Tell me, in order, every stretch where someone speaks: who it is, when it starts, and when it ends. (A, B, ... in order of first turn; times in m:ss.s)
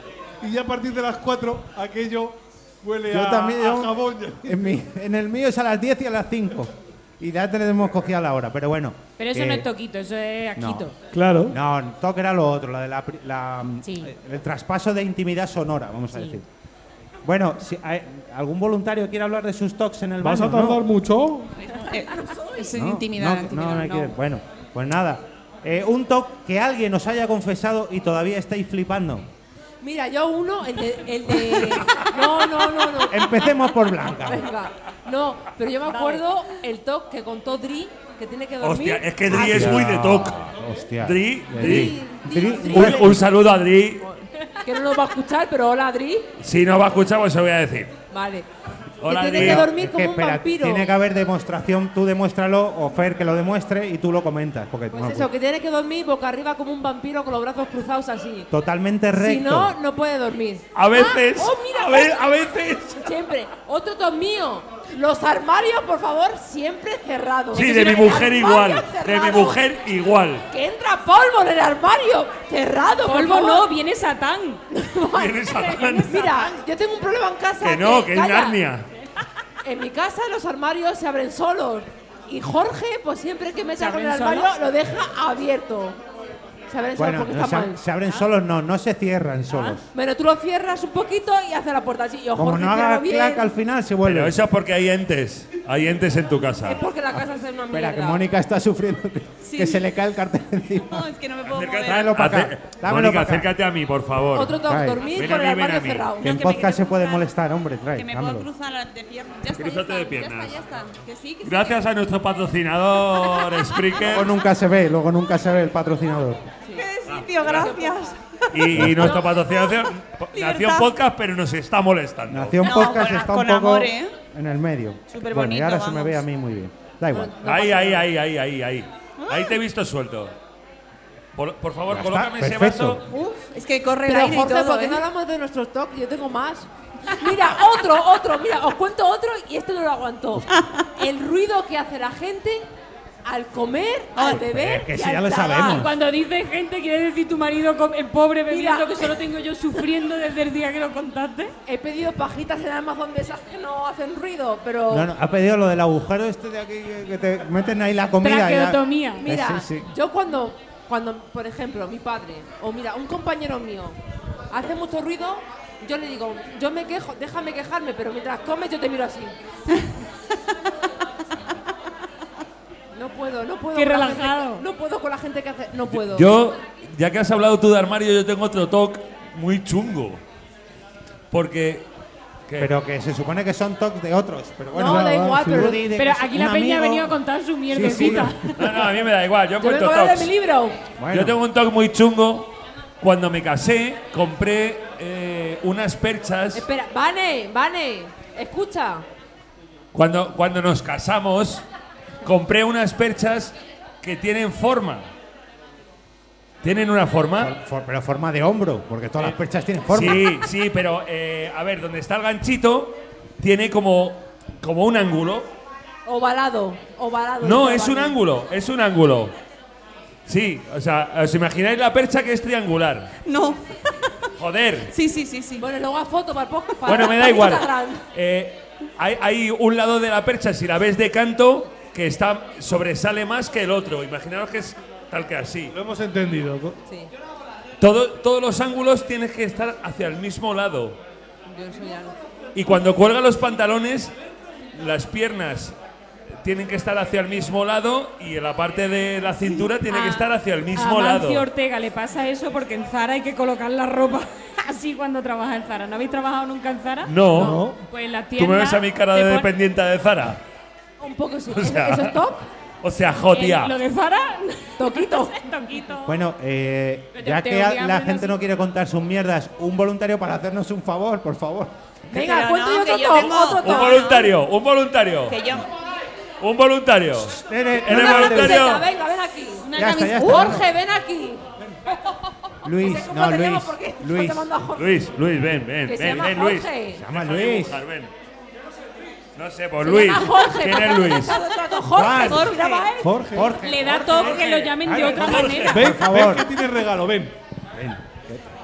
0:00.4-0:04.7 A
0:03.1-0:09.7 B
0:09.2-0:11.0 C
0:10.6-0:10.9 B
0:11.1-0:11.5 A
0:11.5-0:16.5 B
0:13.8-0:14.1 C
0:16.1-0:16.4 C
0:17.2-0:20.8 B
0:20.2-0:21.5 A
0:21.6-0:24.1 D
0:21.7-0:22.8 E
0:22.7-0:29.3 B
0:29.8-0:33.6 E
0:33.0-0:34.5 B
0:34.1-0:40.0 E
0:35.8-0:36.2 C
0:38.6-0:40.4 F
0:39.3-0:43.2 B
0:41.0-0:42.0 F
0:41.6-0:43.2 E
0:42.6-0:44.0 F
0:44.0-0:46.3 E
0:46.4-0:47.9 F
0:48.1-0:48.4 E
0:49.0-0:49.7 F
0:49.0-0:50.9 E
0:49.3-0:55.3 B
0:54.9-0:58.5 E
0:58.5-0:59.7 B
0:59.1-1:02.2 E
1:00.7-1:03.0 F
1:03.0-1:09.6 E
1:07.5-1:10.4 F
1:10.5-1:13.7 E
1:13.0-1:14.6 C
1:14.7-1:18.6 E
1:15.1-1:16.5 F
1:17.6-1:18.8 F
1:19.6-1:26.0 E
1:23.8-1:24.5 C
1:26.7-1:27.8 E
1:26.9-1:29.8 B
1:29.6-1:33.5 E
1:32.3-1:34.4 B
1:34.0-1:36.8 F
1:36.6-1:38.2 E
1:37.1-1:41.1 B
1:39.4-1:39.8 D
1:40.8-1:42.2 D
1:41.5-1:46.1 F
1:41.8-1:43.5 B
1:44.3-1:46.3 E
1:44.6-1:45.1 B
1:46.2-1:47.3 D
1:46.2-1:48.5 B
1:47.9-1:51.8 D
1:49.5-1:50.6 F
1:51.4-1:54.3 F
1:53.7-1:54.0 D
1:54.0-1:56.4 B
1:56.7-1:59.8 D
1:57.1-1:57.8 F
1:57.5-1:58.0 E
1:58.5-2:02.9 F
1:58.7-1:59.2 B
2:00.3-2:00.9 D
2:02.3-2:07.3 B
2:02.6-2:04.2 D
2:05.1-2:06.2 D
2:07.1-2:08.1 E
2:07.4-2:10.3 F
2:09.2-2:09.6 D
2:11.3-2:13.0 F
2:11.9-2:13.0 B
2:13.1-2:15.0 D
2:14.0-2:20.4 E
2:20.5-2:20.9 D
2:21.0-2:22.7 E
2:23.2-2:25.9 E
2:24.2-2:24.4 D
2:24.2-2:25.9 B
2:25.6-2:31.5 C
2:28.5-2:29.2 E
2:31.6-2:35.1 E
2:34.9-2:39.9 B
2:38.2-2:39.2 C
2:39.2-2:44.0 E
2:44.5-2:49.3 E
2:52.9-2:56.3 E
2:53.7-2:54.6 C
2:55.9-3:00.2 F
3:01.3-3:01.9 F
3:02.5-3:02.7 F
3:02.6-3:07.2 B
3:04.7-3:05.8 E
3:05.2-3:05.7 A
3:06.0-3:08.7 C
3:07.7-3:08.3 B
3:08.0-3:10.3 F
3:09.6-3:10.8 E
3:11.0-3:11.4 B
3:11.1-3:16.6 F
3:16.5-3:19.0 E
3:19.9-3:21.6 F
3:22.2-3:25.1 F
3:26.6-3:27.5 F
3:27.4-3:30.3 B
3:29.9-3:35.5 F
3:36.0-3:38.2 E
3:37.4-3:39.3 F
3:40.3-3:43.1 F
3:43.2-3:43.6 D
3:44.4-3:44.9 F
3:44.9-3:45.6 D
3:45.6-3:48.0 E
3:46.8-3:55.7 F
3:55.7-3:56.8 A
3:56.8-3:57.1 E
3:57.8-4:01.0 F
4:01.5-4:02.1 E
4:02.5-4:04.1 F
4:04.7-4:05.7 F
4:06.4-4:11.4 F
4:09.5-4:19.5 C
4:17.0-4:17.7 F
4:17.3-4:17.8 A
4:18.4-4:20.4 F
4:21.0-4:22.4 E
4:21.5-4:22.2 F
4:22.8-4:23.8 F
4:23.3-4:26.2 C
4:24.8-4:25.8 E
4:26.0-4:31.7 B
4:27.1-4:28.4 C
4:32.1-4:34.3 E
4:32.1-4:34.2 D
4:33.6-4:35.4 F
4:35.3-4:35.7 D
4:36.4-4:38.9 F
4:37.3-4:38.8 B
4:37.8-4:41.5 E
4:39.6-4:40.6 D
4:39.7-4:40.7 B
4:42.6-4:44.5 B
4:42.7-4:45.0 E
4:44.8-4:48.1 F
4:45.8-4:47.0 E
4:46.9-4:47.8 B
4:49.3-4:51.4 F
4:49.8-4:53.1 E
4:51.9-4:56.5 B
4:52.2-4:52.9 D
4:53.0-4:53.5 A
4:53.6-4:55.8 C
4:54.1-4:55.9 F
4:55.7-4:57.3 A
4:57.7-4:58.4 B